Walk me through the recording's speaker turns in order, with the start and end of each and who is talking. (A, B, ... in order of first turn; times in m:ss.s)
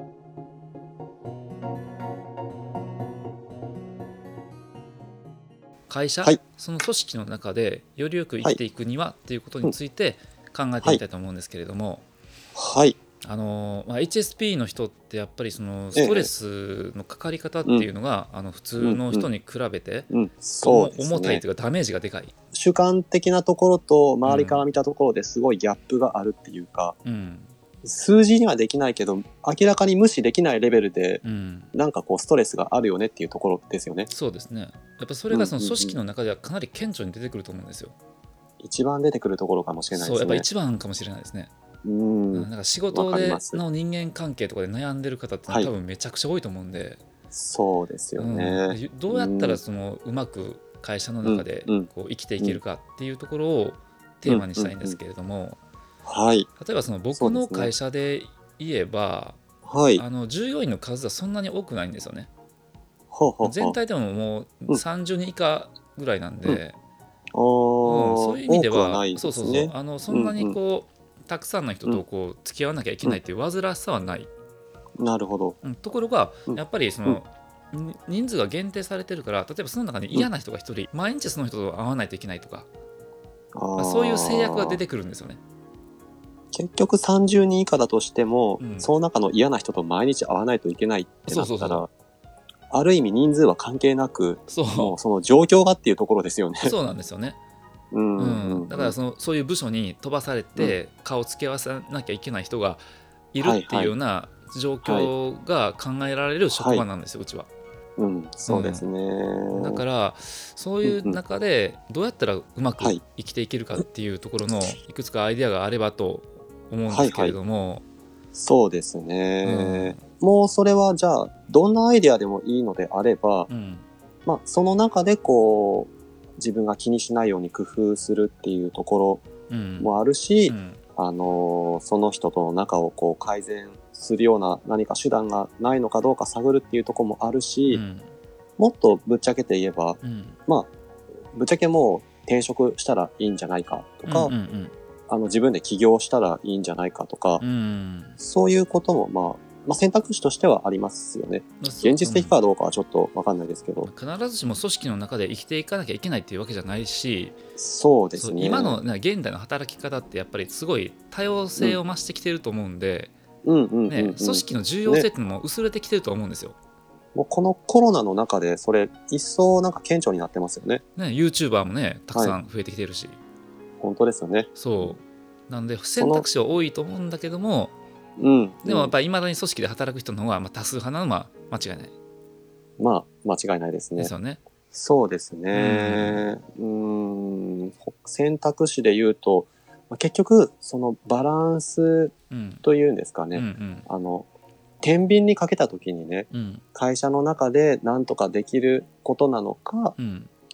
0:05.9-0:12.0 A
0:12.5-0:13.0 B
0:13.2-0:20.1 A
0:15.9-0:16.3 B
0:18.8-0:19.3 B
0:20.1-0:21.4 B
0:20.6-0:22.3 A
0:22.5-0:27.0 B
0:24.2-0:24.6 A
0:27.0-0:27.5 A
0:27.8-0:34.1 B
0:31.2-0:31.7 A
0:34.1-0:37.9 A
0:35.3-0:36.0 B
0:38.6-0:40.4 B
0:39.9-0:41.5 A
0:41.8-0:43.6 B
0:42.3-0:47.0 A
0:47.3-0:49.6 B
0:48.2-0:55.6 A
0:51.2-0:52.6 B
0:54.2-0:55.0 B
0:56.0-0:56.5 B
0:56.6-0:59.4 A
0:57.2-0:57.7 B
0:59.6-1:00.0 B
1:00.0-1:02.3 A
1:03.1-1:03.8 B
1:03.4-1:06.8 A
1:07.3-1:10.6 B
1:07.8-1:14.3 A
1:15.0-1:15.6 B
1:15.6-1:22.7 A
1:16.5-1:17.2 B
1:23.5-1:24.8 B
1:23.8-1:25.4 A
1:26.5-1:31.9 B
1:28.6-1:28.9 A
1:31.3-1:31.8 A
1:32.7-1:36.7 B
1:34.5-1:34.9 A
1:36.6-1:37.4 A
1:37.9-1:38.9 B
1:38.2-1:42.8 A
1:43.3-1:47.5 A
1:43.4-1:43.9 B
1:44.8-1:45.1 B
1:46.5-1:46.8 B
1:48.0-1:49.8 B
1:48.5-1:48.8 A
1:49.5-1:57.8 A
1:50.8-1:51.2 B
1:56.9-1:57.4 B
1:58.3-2:03.5 B
1:59.4-2:00.0 A
2:03.5-2:03.8 A
2:04.2-2:09.2 B
2:09.5-2:09.9 A
2:09.8-2:17.8 B
2:10.4-2:10.8 A
2:17.7-2:18.1 A
2:18.6-2:20.7 B
2:20.0-2:20.4 A
2:21.3-2:24.3 B
2:24.0-2:24.7 A
2:25.1-2:27.4 B
2:27.4-2:28.2 A
2:28.2-2:33.9 B
2:31.6-2:32.4 A
2:33.8-2:37.4 A
2:37.6-2:38.8 B
2:38.2-2:43.1 A
2:43.4-2:45.1 B
2:43.9-2:46.6 A
2:47.1-2:50.8 B
2:51.0-2:53.2 A
2:53.8-2:55.0 B
2:54.6-2:57.7 A
2:56.0-2:56.2 B
2:58.2-2:58.9 B
2:58.6-3:01.9 A
3:02.8-3:04.1 B
3:04.0-3:04.4 A
3:04.7-3:14.3 B
3:05.5-3:06.3 A
3:12.3-3:12.6 A
3:13.3-3:13.9 A
3:14.8-3:19.9 B
3:16.3-3:16.6 A
3:20.0-3:20.3 A